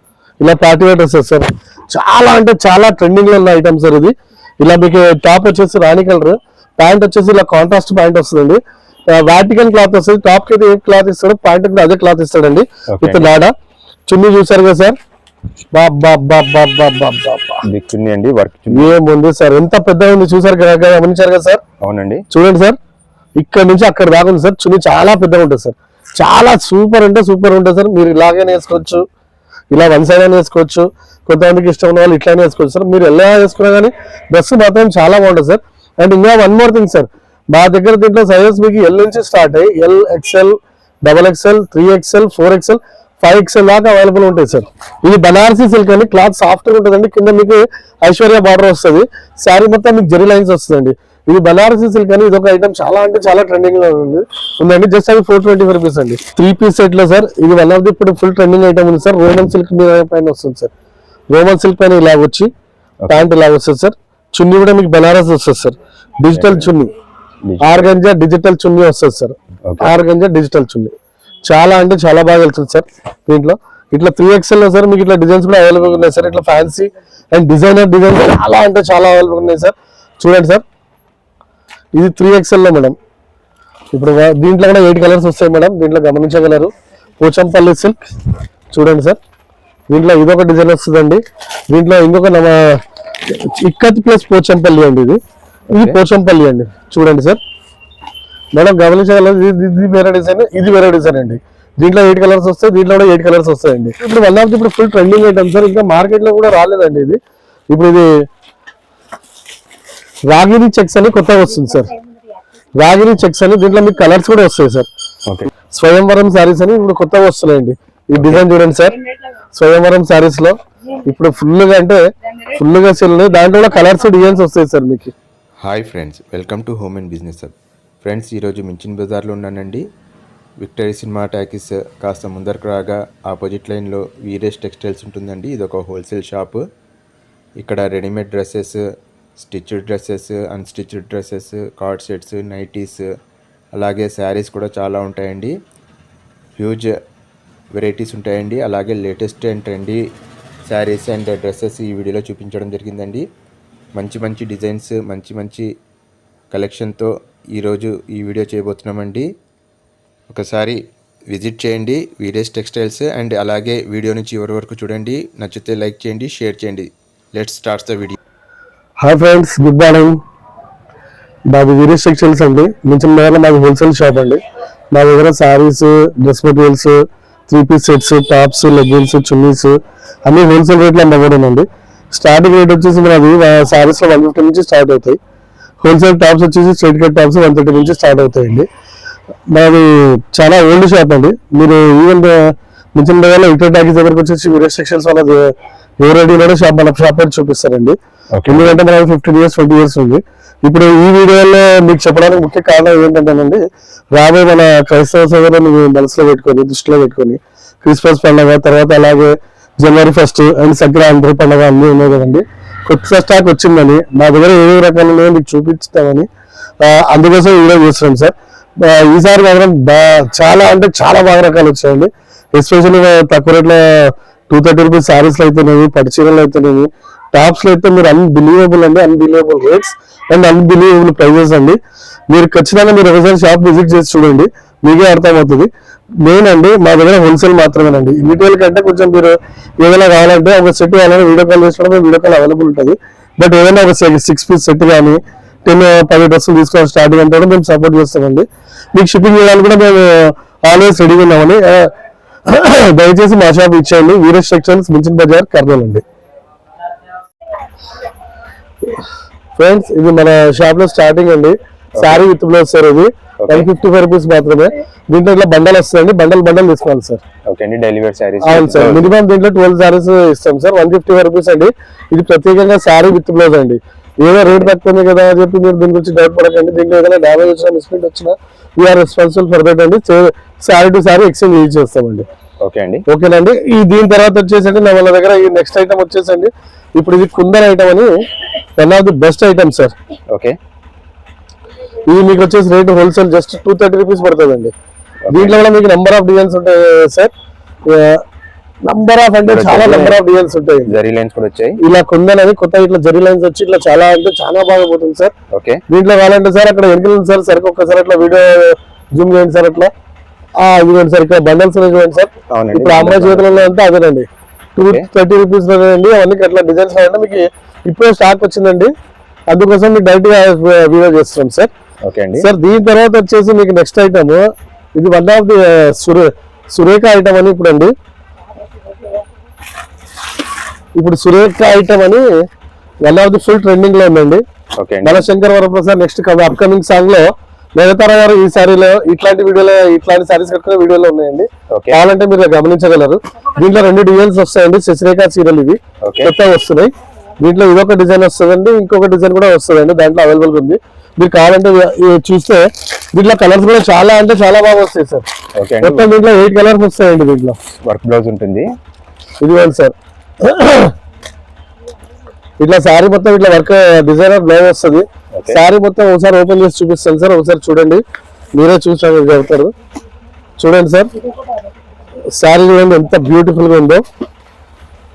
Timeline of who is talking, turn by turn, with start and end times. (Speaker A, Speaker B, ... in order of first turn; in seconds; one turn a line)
Speaker A: 0.4-13.5
Speaker B: 12.9-13.3
Speaker A: 14.1-15.0
Speaker A: 15.7-17.6
Speaker B: 17.6-18.9
Speaker A: 18.7-21.6
Speaker B: 21.8-22.2
Speaker A: 22.3-22.8
Speaker A: 23.4-29.1
Speaker A: 29.7-60.7
Speaker A: 61.3-62.5
Speaker B: 63.0-63.3
Speaker A: 63.1-66.9
Speaker B: 66.3-66.7
Speaker B: 67.5-67.9
Speaker A: 67.6-70.9
Speaker B: 69.7-69.9
Speaker A: 71.5-80.6
Speaker A: 81.9-83.0
Speaker A: 83.9-88.0
Speaker A: 88.7-89.2
Speaker A: 89.9-97.4
Speaker B: 95.7-96.0
Speaker A: 98.5-108.2
Speaker A: 110.3-111.9
Speaker A: 112.8-114.9
Speaker A: 115.7-119.0
Speaker A: 119.5-125.1
Speaker C: 125.6-129.8
Speaker C: 130.6-136.6
Speaker C: 137.6-143.1
Speaker C: 143.8-145.5
Speaker C: 146.6-147.0
Speaker C: 147.7-150.0
Speaker C: 150.7-153.2
Speaker C: 153.9-155.7
Speaker C: 156.5-159.3
Speaker C: 160.3-168.2
Speaker A: 169.0-170.2
Speaker A: 171.5-185.2
Speaker A: 185.8-188.7
Speaker A: 189.5-216.3
Speaker B: 198.3-198.8
Speaker A: 216.8-231.8
Speaker A: 232.3-251.9
Speaker A: 252.5-256.0
Speaker A: 259.6-267.2
Speaker B: 261.9-262.2
Speaker B: 263.4-263.7
Speaker B: 267.5-269.1
Speaker A: 268.4-282.2
Speaker B: 282.6-283.0
Speaker A: 283.1-288.1
Speaker A: 288.8-289.9
Speaker B: 290.3-290.6
Speaker A: 292.1-294.7
Speaker B: 295.2-295.6
Speaker A: 295.3-297.3
Speaker A: 297.8-298.2
Speaker A: 298.8-300.9
Speaker B: 299.4-300.2
Speaker B: 300.9-301.8
Speaker A: 301.8-305.3
Speaker B: 305.5-305.8
Speaker A: 305.9-309.9
Speaker A: 310.6-318.9
Speaker B: 312.5-313.5
Speaker B: 314.8-315.1
Speaker A: 319.5-321.7
Speaker B: 322.0-322.5
Speaker A: 322.4-327.9
Speaker A: 330.9-332.3
Speaker A: 333.0-334.4
Speaker B: 334.8-335.2
Speaker A: 335.0-355.3
Speaker B: 341.7-342.0
Speaker B: 346.0-346.3
Speaker B: 355.5-356.1
Speaker A: 355.8-357.6
Speaker B: 357.8-358.7
Speaker A: 359.4-360.9
Speaker A: 362.6-368.0
Speaker B: 365.3-365.6
Speaker A: 368.5-369.7
Speaker A: 370.6-371.1
Speaker A: 372.3-374.0